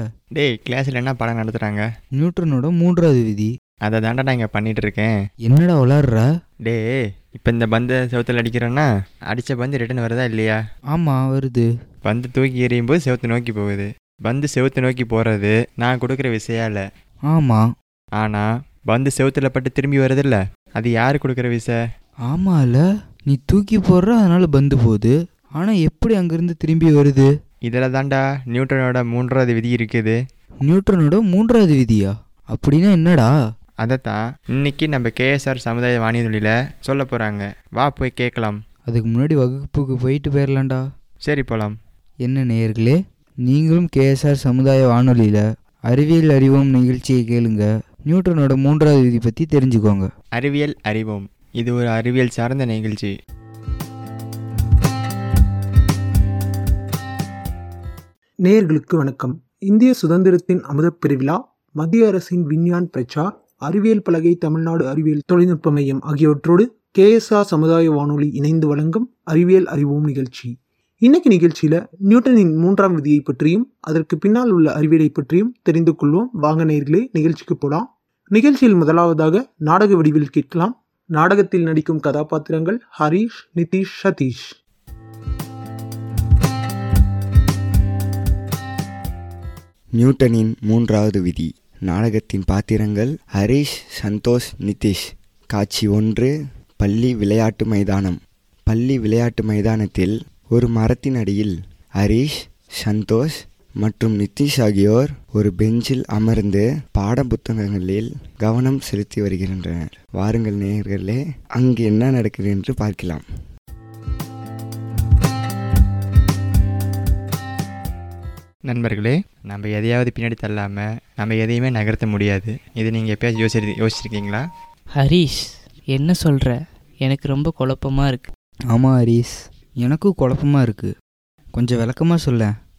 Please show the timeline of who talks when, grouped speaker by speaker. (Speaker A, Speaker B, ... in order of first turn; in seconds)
Speaker A: 0.3-1.8, 3.9-5.1, 7.4-10.6, 12.1-16.8, 18.2-21.7, 27.7-30.1, 33.8-38.6, 41.2-41.7, 50.4-53.1, 118.7-124.4
Speaker B: 2.2-3.5, 5.5-6.2, 10.9-11.7, 17.3-17.6, 22.3-27.3, 30.6-33.3, 38.9-40.8, 42.2-50.1, 128.7-129.3, 129.8-130.9, 131.6-132.5
Speaker C: 58.4-84.5
Speaker D: 90.0-95.0, 95.5-113.2
Speaker E: 125.0-125.4, 125.9-128.3